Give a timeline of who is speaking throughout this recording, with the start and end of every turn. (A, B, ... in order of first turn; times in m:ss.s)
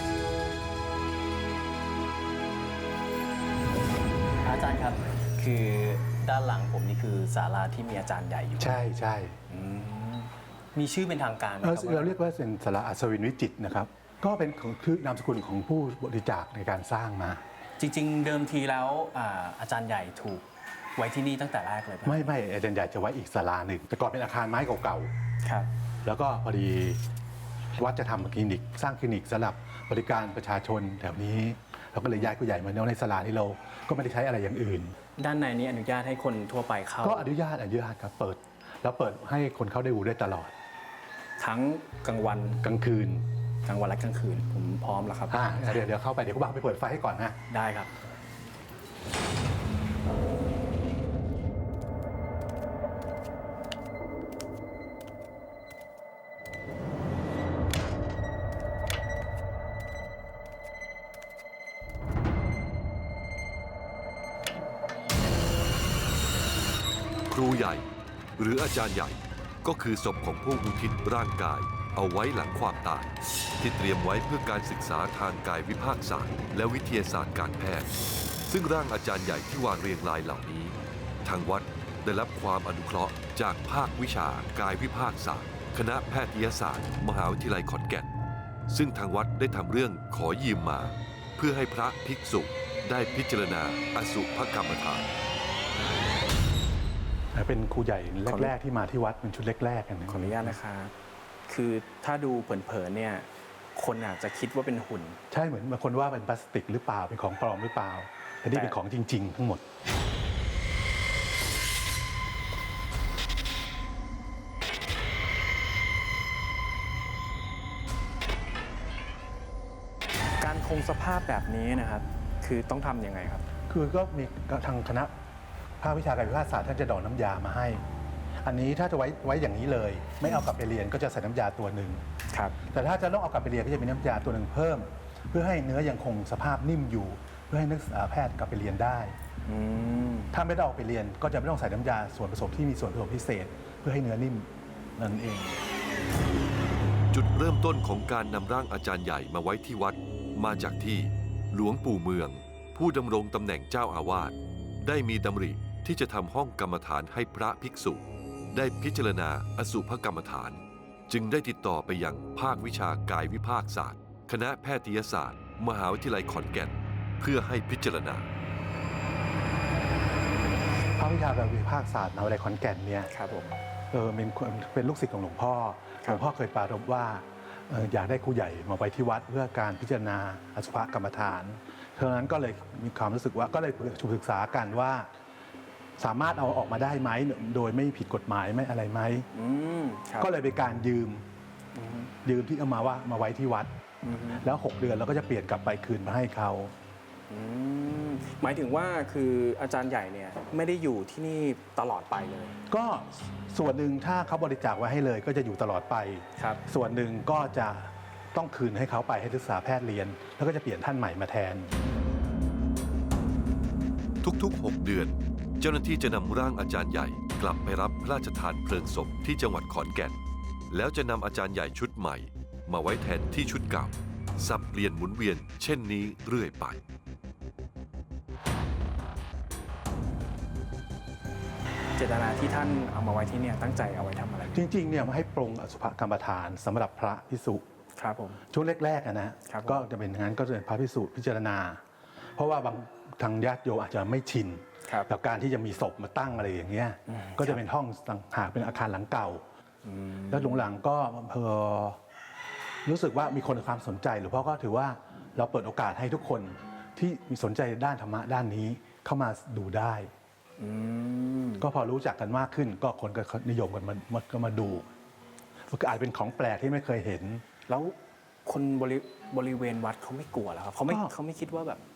0:04.4-0:08.8 A
0:08.6-0:09.4 B
0:09.5-0:12.2 A
0:11.6-0:17.4 B
0:17.8-0:20.4 A
0:21.0-0:22.2 A
0:22.0-0:25.1 B
0:25.4-0:25.7 A
0:26.0-0:27.0 B
0:27.8-0:35.0 B
0:35.2-0:37.3 A
0:37.0-0:40.5 B
0:41.4-0:42.6 A
0:42.6-0:43.2 B
0:43.6-0:45.7 A
0:45.3-0:47.4 B
0:47.5-0:47.9 A
1:07.3-1:07.8 C
1:08.4-1:13.1 C
1:13.6-1:17.9 C
1:18.5-1:28.1 C
1:28.7-1:35.1 C
1:37.3-1:40.6 B
1:38.3-1:38.5 A
1:40.1-1:40.9 A
1:41.5-1:45.2 A
1:45.3-1:49.6 B
1:48.5-1:48.8 A
2:00.4-2:03.4 A
2:03.7-2:05.1 B
2:05.8-2:07.8 B
2:08.4-2:12.0 B
2:12.3-2:12.6 A
2:12.6-2:19.2 B
2:19.5-2:20.3 A
2:20.3-2:25.6 B
2:27.1-2:48.3 C
2:51.0-2:53.1 B
2:53.1-2:53.6 A
2:53.9-3:05.1 B
3:06.0-3:09.3 B
3:09.3-3:10.3 A
3:10.2-3:11.2 B
3:11.7-3:12.1 A
3:12.2-3:13.7 B
3:14.0-3:14.5 A
3:14.4-3:16.7 B
3:17.3-3:22.6 A
3:22.7-3:31.7 B
3:26.4-3:26.6 A
3:34.2-3:40.2 C
3:40.7-3:46.8 C
3:52.0-3:54.6 A
3:54.5-3:57.6 B
3:58.0-3:58.4 A
3:58.5-4:01.8 B
3:59.5-3:59.9 A
4:02.4-4:09.4 B
4:07.1-4:07.6 A
4:09.8-4:10.7 A
4:10.3-4:12.0 B
4:12.8-4:20.1 B
4:20.6-4:21.6 A
4:21.6-4:24.9 B
4:25.7-4:27.4 B
4:27.7-4:31.8 A
4:30.9-4:31.1 B